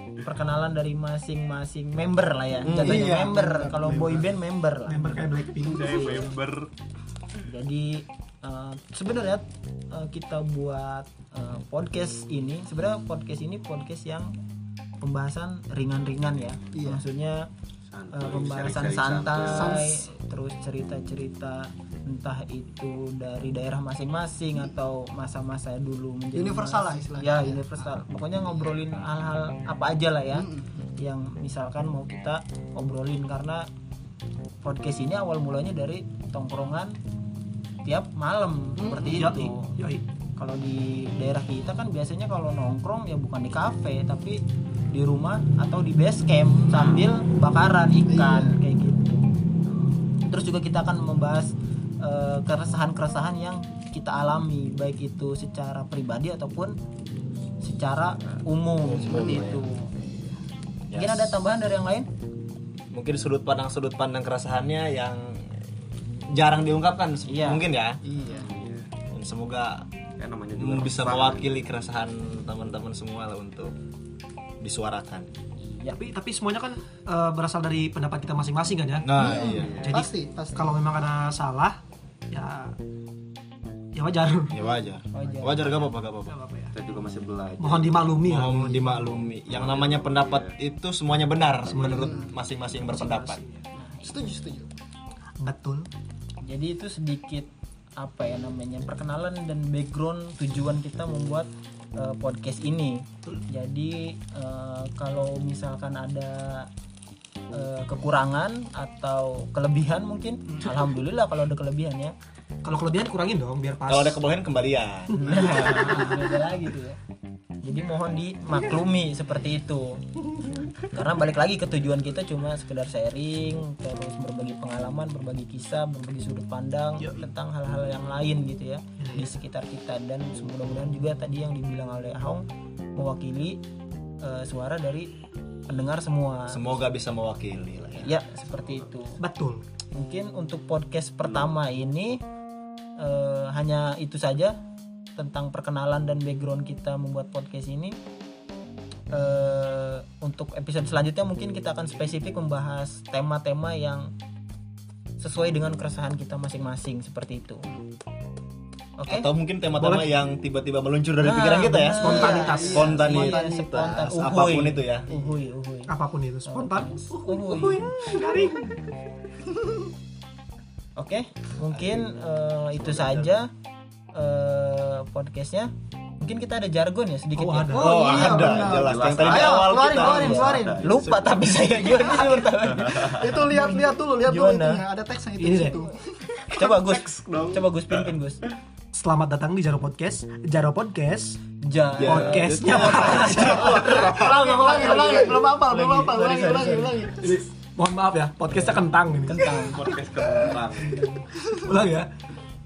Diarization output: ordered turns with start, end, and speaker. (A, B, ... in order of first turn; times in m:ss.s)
0:00.2-0:06.4 A
0:02.6-0:03.1 B
0:02.8-0:03.9 C
0:03.8-0:04.3 D
0:04.8-0:05.9 D
0:05.6-0:06.7 E
0:07.4-0:14.3 A
0:15.0-0:17.5 A
0:16.7-0:17.0 C
0:17.9-0:19.8 E
0:18.1-0:33.7 A
0:19.4-0:20.1 C
0:26.3-0:28.0 C
0:30.3-0:30.6 C
0:34.6-0:37.0 A
0:37.8-0:39.7 A
0:38.8-0:39.2 C
0:39.1-0:40.0 D
0:40.4-0:49.2 A
0:48.1-0:48.6 C
0:50.2-0:56.8 A
0:57.6-0:59.9 A
0:58.8-0:59.6 B
1:00.9-1:01.4 B
1:00.9-1:02.1 A
1:02.9-1:08.0 B
1:07.3-1:07.6 A
1:08.0-1:08.5 C
1:08.2-1:08.9 E
1:09.1-1:09.9 B
1:10.2-1:11.4 E
1:10.6-1:13.7 B
1:14.6-1:15.3 B
1:15.6-1:16.0 A
1:15.9-1:19.1 D
1:19.0-1:19.8 B
1:19.2-1:20.7 C
1:19.4-1:20.0 E
1:19.8-1:21.8 D
1:22.3-1:22.8 D
1:23.9-1:24.6 D
1:24.5-1:26.4 B
1:25.1-1:25.9 A
1:26.3-1:26.7 D
1:26.7-1:28.2 E
1:27.6-1:29.0 D
1:28.2-1:33.4 B
1:29.5-1:30.5 E
1:31.7-1:32.2 D
1:31.9-1:32.3 C
1:32.9-1:33.6 D
1:33.8-1:34.2 A
1:34.0-1:34.7 C
1:35.4-1:35.9 D
1:36.4-1:46.7 A
1:47.5-1:52.1 A
1:52.6-1:54.2 D
1:53.9-1:56.0 B
1:55.2-1:57.0 A
1:57.6-2:12.4 A
2:13.0-2:13.6 A
2:14.2-2:15.1 A
2:15.7-2:16.8 A
2:16.5-2:18.1 B
2:18.0-2:19.2 A
2:19.2-2:19.6 D
2:19.9-2:22.2 A
2:23.0-2:24.6 A
2:25.2-2:28.0 A
2:29.1-2:34.1 A
2:35.2-2:37.7 A
2:39.0-2:39.3 A
2:39.1-2:45.1 B
2:39.8-2:40.1 D
2:41.2-2:45.9 A
2:42.0-2:42.9 D
2:42.2-2:43.0 C
2:45.9-2:48.8 D
2:46.4-2:48.0 A
2:51.0-2:53.5 A
2:51.7-2:52.1 B
2:52.8-2:53.3 B
2:54.1-2:57.8 A
2:57.4-2:58.0 D
2:57.7-3:00.5 B
2:57.8-3:00.8 C
2:58.3-3:01.0 E
3:00.0-3:04.8 A
3:01.9-3:06.4 C
3:05.4-3:05.8 D
3:06.5-3:08.5 A
3:06.9-3:07.6 E
3:08.9-3:11.4 D
3:11.6-3:13.8 A
3:12.0-3:16.9 B
3:12.0-3:13.8 D
3:13.6-3:17.3 C
3:14.7-3:16.8 A
3:17.2-3:19.4 D
3:18.5-3:19.8 A
3:19.6-3:21.0 E
3:21.0-3:21.4 C
3:21.6-3:22.1 D